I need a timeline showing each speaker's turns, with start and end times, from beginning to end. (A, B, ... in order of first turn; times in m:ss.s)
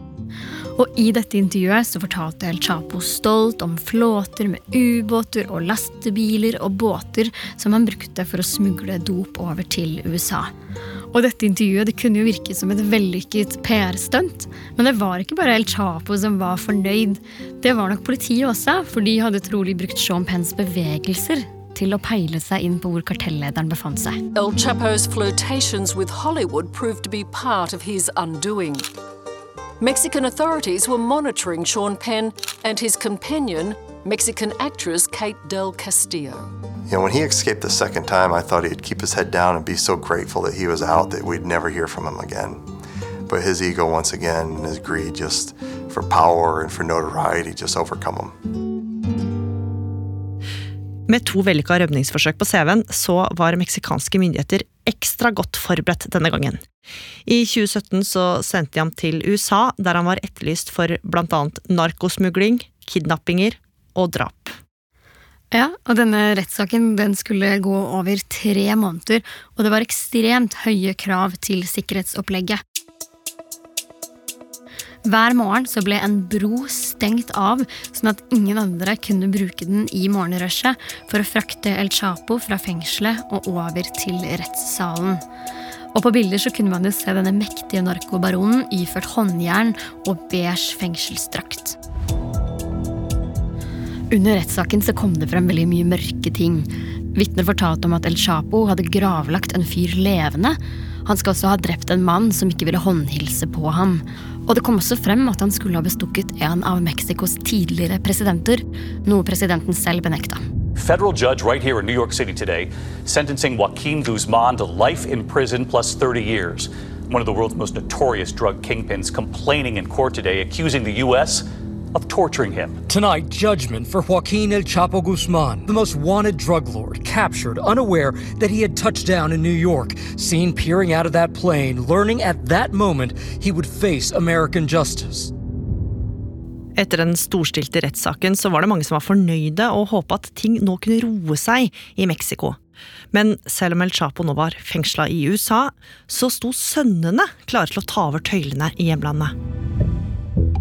0:00.8-0:10.5 A
0:11.1-0:24.2 A
0:24.3-0:28.8 B
0:29.8-0:36.5 B
0:36.9-0:42.6 C
0:43.3-0:48.3 C
0:51.1-0:56.6 D
0:57.2-1:04.6 D
1:05.5-1:12.6 A
1:15.0-1:25.2 A
1:25.9-1:31.8 A
1:34.1-1:50.4 A
1:50.7-2:02.8 E
2:02.9-2:15.3 F
2:16.8-2:22.6 D
2:23.1-2:29.3 D